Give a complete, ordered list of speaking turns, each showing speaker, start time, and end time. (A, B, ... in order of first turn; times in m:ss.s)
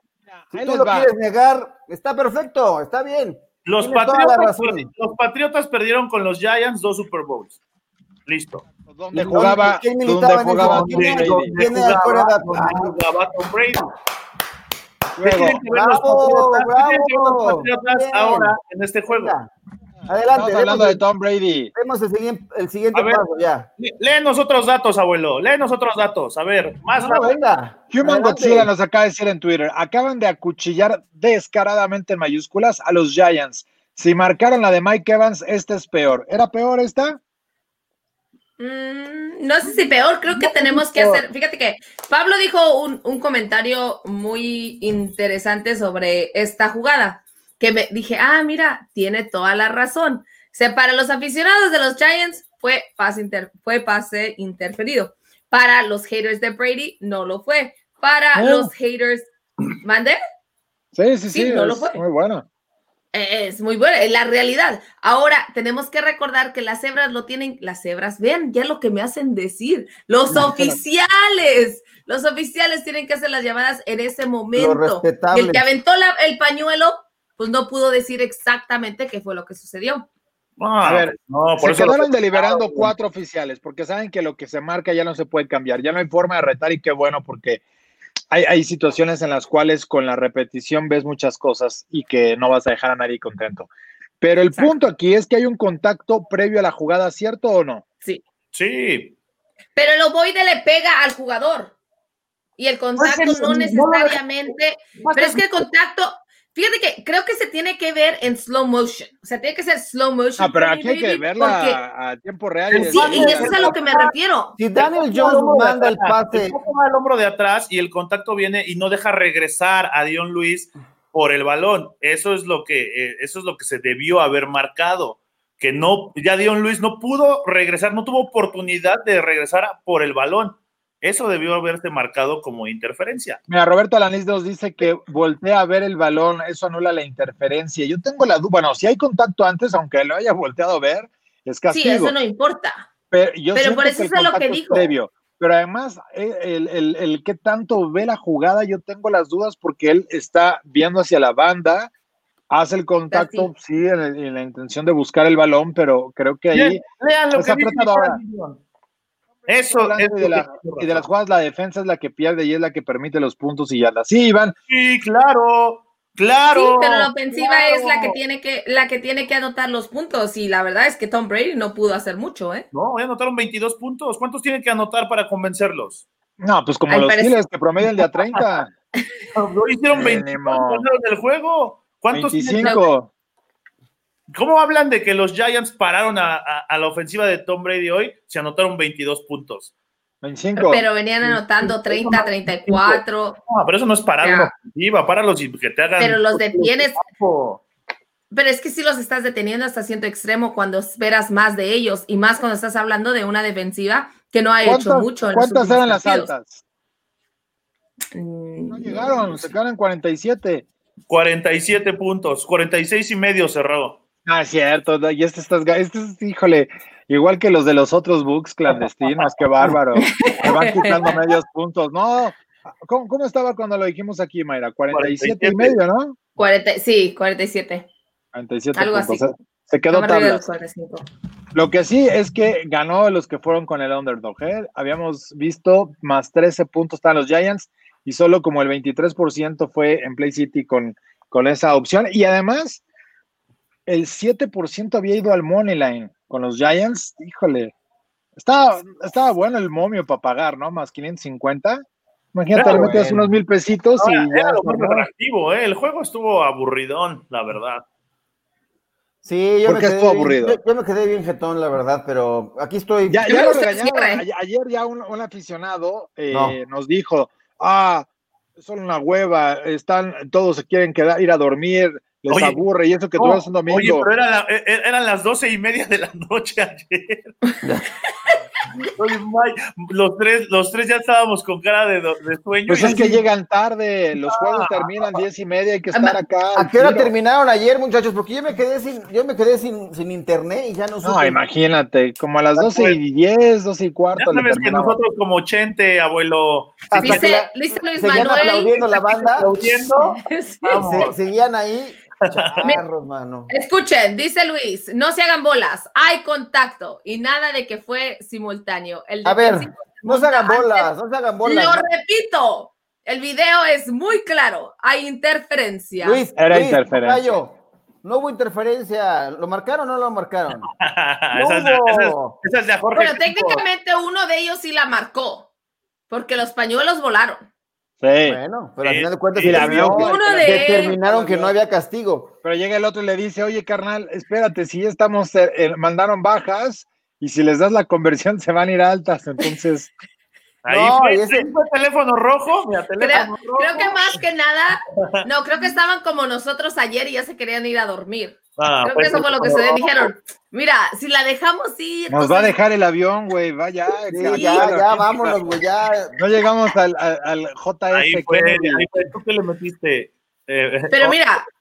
0:00.3-0:01.1 A
0:00.5-0:04.9 B
0:03.6-0:07.6 C
0:08.3-0:09.6 C
0:08.9-0:11.5 A
0:09.2-0:13.0 B
0:10.6-0:13.9 C
0:15.2-0:15.6 A
0:15.2-0:19.4 C
0:15.7-0:18.6 B
0:19.1-0:19.5 B
0:20.1-0:21.0 B
0:20.3-0:21.7 A
0:21.7-0:23.7 B
0:22.9-0:23.2 C
0:23.8-0:27.3 C
0:27.0-0:28.7 B
0:27.9-0:37.2 A
0:38.6-0:59.3 D
0:40.3-0:41.2 C
0:58.3-0:58.7 A
0:59.8-1:00.2 D
1:00.9-1:02.4 A
1:01.3-1:02.0 D
1:03.1-1:20.1 D
1:10.3-1:10.8 A
1:14.5-1:15.6 B
1:20.6-1:22.1 C
1:20.8-1:27.6 A
1:21.8-1:22.9 B
1:28.3-1:33.7 A
1:34.2-1:37.8 A
1:38.5-1:39.1 C
1:39.8-1:41.7 D
1:42.6-1:51.8 D
1:43.0-1:44.3 C
1:45.0-1:45.6 C
1:50.4-1:53.7 A
1:52.7-1:54.1 C
1:52.8-1:54.6 D
1:54.6-1:56.6 B
1:54.7-2:13.4 C
2:13.5-2:22.1 A
2:21.7-2:22.9 D
2:23.1-2:31.9 A
2:23.5-2:24.9 D
2:32.5-2:36.8 A
2:33.1-2:33.5 D
2:36.5-2:38.6 C
2:37.3-2:38.2 A
2:39.5-2:41.0 C
2:39.6-2:44.5 A
2:44.7-2:48.2 C
2:46.5-2:52.6 D
2:52.7-2:56.0 C
2:56.4-2:58.7 A
2:56.9-2:57.4 D
2:59.3-3:02.8 C
2:59.9-3:00.8 A
3:02.1-3:03.1 A
3:04.3-3:09.7 C
3:10.2-3:11.4 A
3:10.6-3:13.4 D
3:11.6-3:17.6 C
3:14.2-3:14.5 D
3:16.0-3:17.0 D
3:18.3-3:26.3 D
3:24.6-3:26.6 A
3:28.1-3:29.5 D
3:28.7-3:30.6 A
3:31.1-3:34.0 C
3:34.2-3:46.2 A
3:40.0-3:41.1 D
3:44.9-3:45.8 C
3:46.4-3:47.9 D
3:48.3-3:50.4 A
3:48.7-3:49.3 D
3:49.9-3:51.0 D
3:51.5-4:02.8 A
4:03.9-4:07.7 A
4:08.4-4:15.1 A
4:12.5-4:13.0 C
4:12.6-4:13.4 B
4:13.9-4:17.8 C
4:19.2-4:23.5 B
4:19.6-4:20.6 A
4:23.1-4:28.0 A
4:23.3-4:24.2 D
4:26.3-4:26.6 B
4:28.6-4:34.1 A
4:32.3-4:32.6 C
4:33.2-4:37.3 C
4:38.9-4:43.2 C
4:42.7-4:47.1 A
4:44.2-4:45.2 C
4:45.9-4:46.2 D
4:46.5-4:51.4 B
4:51.0-4:55.0 A
4:52.5-4:53.0 C
4:54.2-4:57.4 C
4:56.9-4:59.5 B
4:57.0-4:58.8 D
4:58.1-5:01.2 C
5:00.0-5:01.1 D
5:00.8-5:03.5 B
5:02.3-5:02.7 C
5:03.5-5:10.9 D
5:09.2-5:11.8 B
5:11.4-5:16.2 D
5:16.0-5:20.7 B
5:16.4-5:17.3 A
5:20.8-5:23.6 C
5:21.3-5:22.4 B
5:22.9-5:25.5 D
5:26.1-5:27.4 D
5:28.0-5:28.4 A
5:28.2-5:32.3 B
5:28.8-5:29.9 C
5:29.4-5:31.5 A
5:29.9-5:31.0 D
5:32.4-5:39.9 A
5:40.6-5:44.2 C
5:40.7-5:41.5 B
5:43.0-5:52.6 D
5:48.6-5:50.1 C
5:49.2-5:49.6 B
5:52.1-5:55.4 A
5:54.1-5:56.2 B
5:54.2-5:54.7 D
5:56.2-5:58.9 A
5:57.9-6:01.2 C
6:00.9-6:01.4 D